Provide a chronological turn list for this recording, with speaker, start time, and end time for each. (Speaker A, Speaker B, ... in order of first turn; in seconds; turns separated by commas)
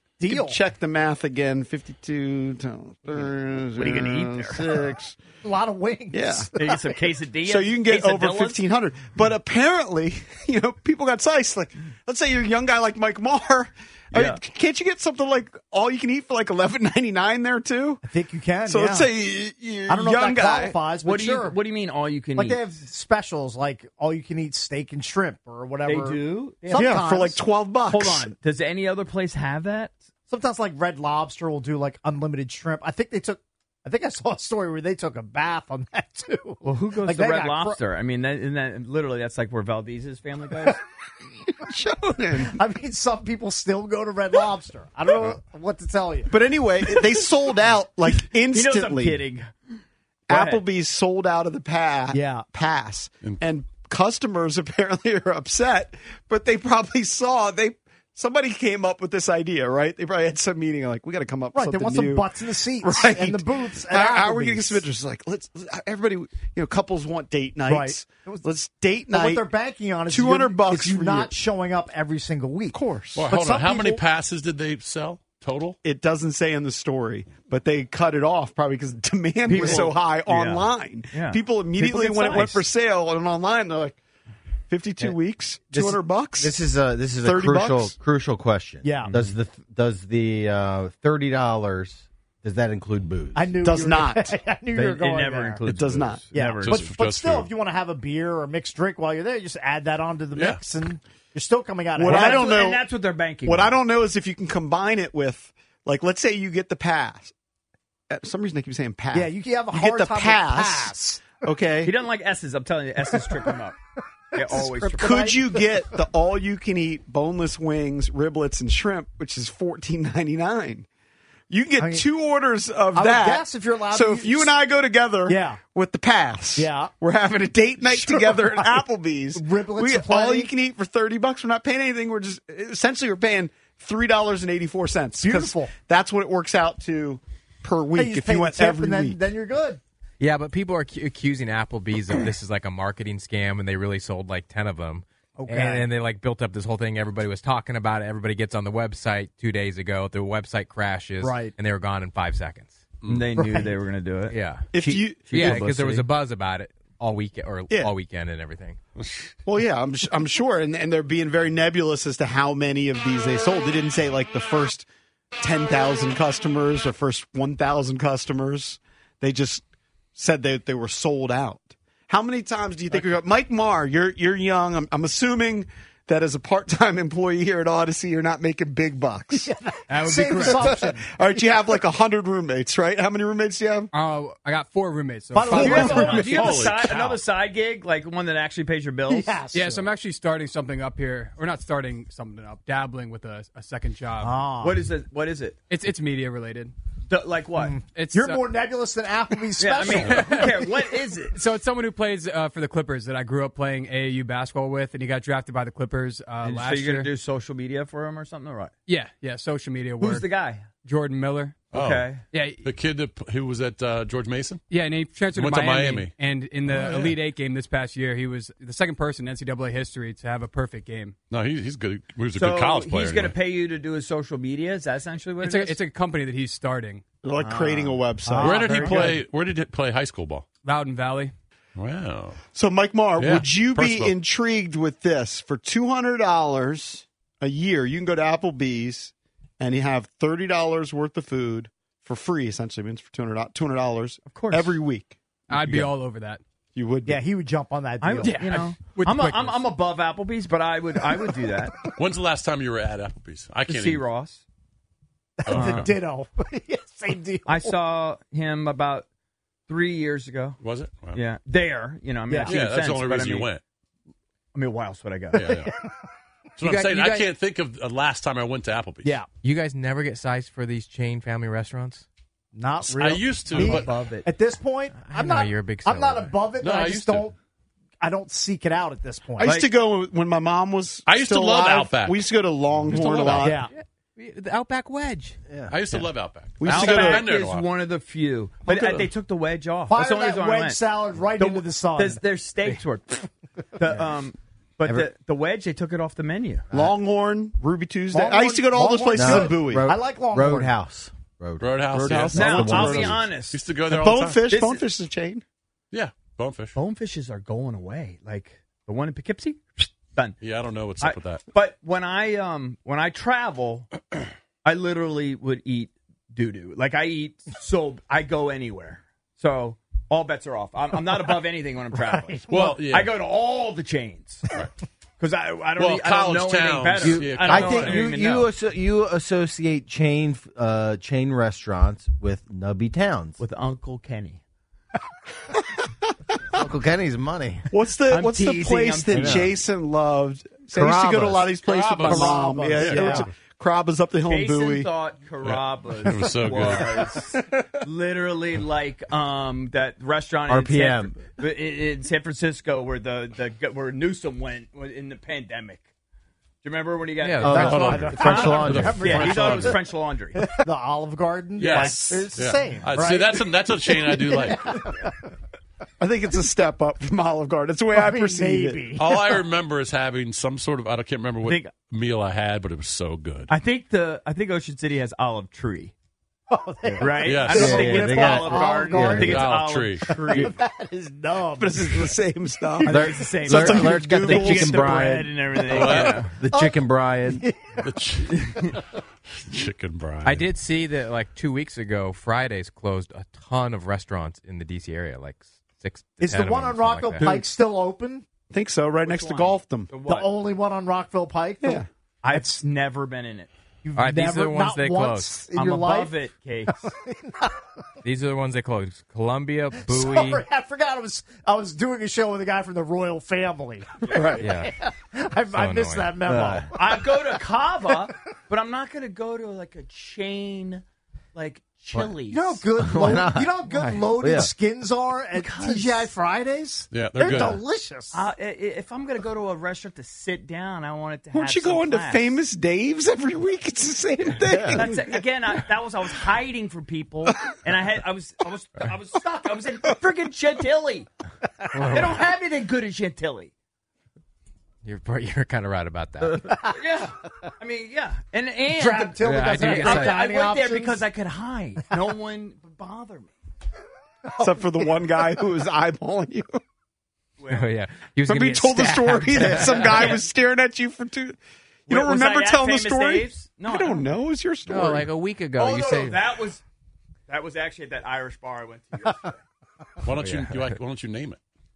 Speaker A: 0.2-0.6, Speaker B: 0.3-5.2, Speaker C: 3.8-4.7, Speaker A: 5.4-6.8, Speaker B: 6.1-6.5, Speaker C: 6.6-8.6, Speaker B: 7.5-18.0, Speaker C: 14.1-14.4, Speaker A: 18.0-19.1, Speaker B: 18.7-20.8, Speaker A: 19.9-21.6, Speaker C: 21.0-22.6, Speaker A: 22.4-27.4, Speaker C: 25.9-26.9, Speaker B: 26.7-28.3, Speaker C: 27.9-29.9, Speaker A: 30.3-37.8, Speaker C: 36.6-40.8, Speaker B: 41.6-42.6, Speaker A: 42.4-46.3, Speaker B: 46.3-49.2, Speaker C: 48.2-49.5, Speaker B: 50.3-62.3, Speaker C: 50.3-50.6, Speaker A: 52.1-52.5, Speaker A: 61.5-64.8, Speaker B: 62.8-69.5, Speaker A: 67.6-68.4, Speaker A: 69.1-74.0, Speaker B: 70.1-71.3, Speaker B: 72.7-73.2, Speaker D: 73.2-75.8, Speaker B: 75.8-84.0, Speaker C: 79.5-82.6, Speaker B: 84.7-86.6, Speaker E: 85.7-93.5, Speaker B: 87.2-87.9, Speaker A: 88.8-89.2, Speaker A: 93.3-95.6, Speaker B: 93.6-94.3, Speaker C: 94.7-96.9, Speaker B: 95.6-96.3, Speaker A: 96.3-102.6, Speaker D: 96.6-97.5, Speaker D: 100.3-100.6, Speaker B: 102.0-102.8, Speaker C: 102.1-103.8, Speaker B: 103.4-107.3, Speaker B: 108.1-111.9, Speaker A: 109.1-111.4, Speaker C: 111.8-113.8, Speaker C: 114.3-115.3, Speaker A: 114.4-115.7, Speaker B: 115.0-120.9, Speaker B: 121.5-139.2, Speaker A: 121.8-122.0, Speaker A: 122.9-124.5, Speaker A: 125.3-125.6, Speaker A: 126.6-126.9, Speaker A: 127.8-128.8, Speaker A: 129.3-130.5, Speaker A: 135.2-135.7, Speaker A: 137.9-139.8, Speaker F: 140.2-152.8, Speaker A: 145.4-145.9, Speaker A: 151.2-151.6, Speaker C: 153.1-156.1, Speaker A: 153.4-153.7, Speaker F: 154.3-158.8, Speaker B: 154.7-155.7, Speaker B: 159.4-164.9, Speaker B: 165.4-169.6, Speaker B: 170.2-179.5, Speaker A: 179.3-181.1, Speaker G: 179.9-180.9, Speaker B: 180.3-183.9, Speaker G: 183.9-186.4, Speaker A: 185.3-186.4, Speaker C: 185.5-189.4, Speaker D: 185.6-187.2, Speaker B: 185.9-186.3, Speaker A: 189.1-189.8, Speaker G: 189.5-194.4, Speaker A: 194.2-194.8, Speaker C: 194.6-195.6, Speaker G: 195.7-196.7, Speaker C: 197.1-197.8, Speaker A: 197.7-200.5, Speaker G: 197.9-198.4, Speaker C: 199.6-201.4, Speaker G: 200.2-200.4, Speaker G: 201.3-207.1, Speaker C: 206.4-208.7, Speaker G: 208.9-211.7, Speaker C: 210.0-210.7, Speaker C: 211.7-212.2, Speaker D: 211.7-212.1, Speaker G: 212.2-212.6, Speaker D: 212.6-214.6, Speaker G: 214.7-221.2, Speaker D: 215.3-217.2, Speaker D: 221.3-223.3, Speaker C: 222.3-225.8, Speaker G: 225.4-227.1, Speaker B: 227.2-229.1, Speaker C: 227.4-228.0, Speaker A: 228.2-229.2, Speaker D: 228.4-230.4, Speaker G: 230.6-231.3, Speaker D: 231.8-232.4, Speaker B: 232.6-245.9, Speaker D: 233.2-234.1, Speaker C: 244.2-244.7, Speaker G: 245.5-246.4, Speaker B: 246.7-247.2, Speaker A: 247.1-248.4, Speaker C: 248.0-251.8, Speaker G: 248.2-249.7, Speaker D: 251.9-254.0, Speaker C: 253.7-254.4, Speaker A: 255.4-257.8, Speaker D: 255.4-255.9, Speaker C: 255.5-255.9, Speaker C: 257.4-259.1, Speaker C: 259.7-260.6, Speaker D: 260.6-261.2, Speaker C: 261.1-263.5, Speaker A: 262.3-262.6, Speaker D: 262.4-263.6, Speaker C: 264.5-265.6, Speaker D: 265.3-265.7, Speaker A: 265.5-265.9, Speaker D: 266.6-269.1, Speaker F: 266.6-267.3, Speaker A: 269.0-269.3, Speaker F: 269.4-272.1, Speaker A: 272.6-277.4, Speaker D: 272.8-273.9, Speaker C: 273.5-274.2, Speaker F: 274.9-276.4, Speaker D: 276.6-277.3, Speaker A: 278.0-279.6, Speaker B: 279.4-283.6, Speaker C: 279.4-279.7, Speaker D: 281.1-282.3, Speaker D: 282.9-283.5, Speaker A: 283.4-283.7, Speaker F: 283.6-285.4, Speaker E: 285.5-285.8, Speaker D: 285.7-287.7, Speaker B: 286.6-287.2, Speaker C: 286.6-290.8, Speaker A: 289.9-292.2, Speaker C: 291.4-296.6, Speaker B: 296.7-299.9, Speaker A: 298.1-300.8, Speaker E: 299.1-303.2, Speaker D: 301.6-304.4, Speaker B: 301.9-303.2, Speaker C: 302.3-303.6, Speaker B: 303.9-305.4, Speaker C: 304.5-304.8, Speaker D: 305.9-306.8, Speaker C: 306.7-310.4, Speaker D: 310.4-311.4, Speaker C: 311.0-313.9, Speaker C: 314.6-324.4, Speaker A: 322.1-322.8, Speaker D: 322.5-323.1, Speaker C: 325.2-328.5, Speaker D: 325.8-328.1, Speaker E: 327.0-333.4, Speaker C: 333.4-334.4, Speaker E: 336.5-337.7, Speaker B: 337.7-344.9, Speaker C: 338.1-339.4, Speaker E: 339.1-339.5, Speaker E: 340.7-341.5, Speaker D: 341.6-343.3, Speaker A: 342.0-343.3, Speaker C: 344.2-355.9, Speaker D: 345.4-347.0, Speaker E: 350.5-351.2, Speaker C: 356.6-360.4, Speaker F: 357.2-358.1, Speaker E: 357.4-359.3, Speaker A: 357.4-359.8, Speaker D: 357.6-359.8, Speaker A: 360.4-365.1, Speaker D: 361.6-364.8, Speaker C: 361.6-362.0, Speaker B: 366.0-368.9, Speaker A: 367.9-369.4, Speaker D: 368.9-373.5, Speaker C: 371.4-371.7, Speaker C: 373.5-375.9, Speaker A: 376.5-379.4, Speaker C: 377.0-380.5, Speaker D: 377.2-378.0, Speaker E: 377.4-379.5, Speaker D: 379.1-380.1, Speaker A: 380.1-382.2, Speaker B: 381.6-385.2, Speaker A: 382.8-383.1, Speaker C: 382.8-386.3, Speaker E: 382.9-387.4, Speaker D: 385.7-386.3, Speaker A: 386.4-387.9, Speaker D: 387.8-388.9, Speaker C: 388.3-388.7, Speaker D: 389.4-390.5, Speaker F: 390.2-397.4, Speaker A: 396.2-398.2, Speaker B: 398.5-399.9, Speaker C: 399.0-400.3, Speaker A: 400.1-402.6, Speaker C: 402.2-403.5, Speaker A: 403.8-406.1, Speaker F: 403.9-405.4, Speaker C: 405.5-406.9, Speaker A: 406.7-407.5, Speaker F: 408.0-410.4, Speaker A: 409.8-417.1, Speaker B: 414.1-414.5, Speaker F: 414.4-414.7, Speaker F: 415.5-416.2, Speaker E: 416.2-416.7, Speaker C: 416.7-420.8, Speaker C: 421.4-422.6, Speaker A: 422.3-428.2, Speaker E: 422.8-424.5, Speaker C: 425.4-426.1, Speaker D: 426.9-427.6, Speaker C: 428.1-432.4, Speaker B: 431.3-435.2, Speaker C: 434.7-441.1, Speaker F: 441.7-442.2, Speaker C: 441.8-443.5, Speaker F: 444.8-446.6, Speaker C: 446.7-453.3, Speaker A: 448.7-451.0, Speaker F: 449.2-450.2, Speaker A: 454.4-454.9, Speaker B: 454.4-456.6, Speaker C: 457.4-457.7, Speaker F: 457.5-460.2, Speaker B: 458.3-465.1, Speaker C: 459.6-460.2, Speaker C: 461.9-464.1, Speaker F: 464.7-466.3, Speaker C: 465.6-466.6, Speaker C: 467.3-469.4, Speaker D: 470.0-471.4, Speaker F: 470.2-470.5